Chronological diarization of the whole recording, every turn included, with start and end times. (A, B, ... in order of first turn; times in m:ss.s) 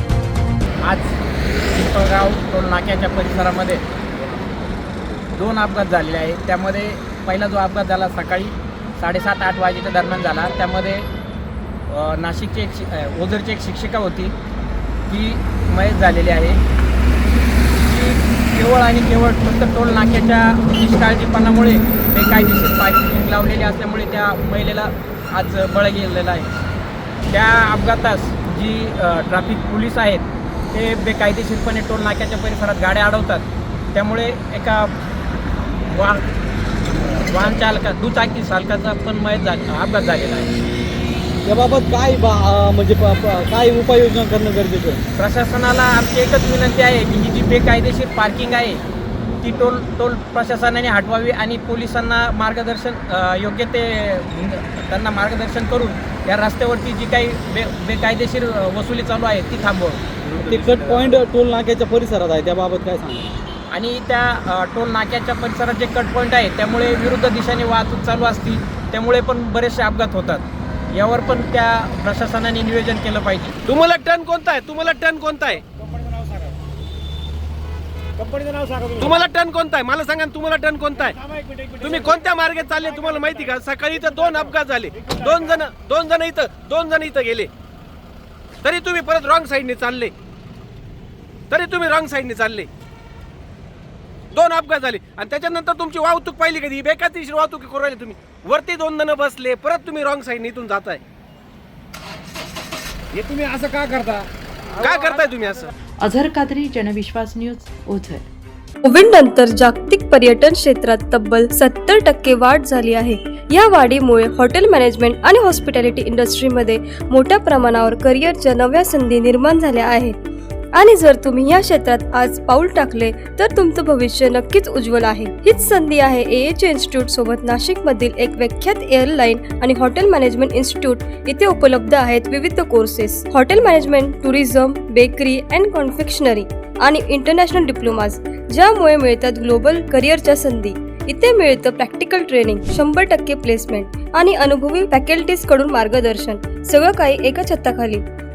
0:00.8-0:01.2 A
0:01.7-0:03.8 A
0:05.3-0:11.1 A
0:11.9-0:14.3 A
0:15.1-0:16.6 A
0:17.8-0:26.5 A
0:27.3-0:34.9 A
0:35.9-0:36.2 A
0:37.1-0:40.5 A
0:41.4-0:45.0 B
0:45.2-0:48.8 A
0:49.4-1:00.1 A
1:00.2-1:03.4 B
1:03.7-1:13.6 A
1:13.6-1:15.6 C
1:16.2-1:16.5 D
1:18.2-1:19.1 D
1:19.0-1:21.2 C
1:21.8-1:27.5 C
1:28.6-1:30.1 C
1:31.5-1:32.7 C
1:34.3-1:41.0 C
1:43.2-1:44.2 D
1:44.7-1:45.7 C
1:46.0-1:48.2 E
1:48.8-2:00.2 F
2:00.8-2:28.0 F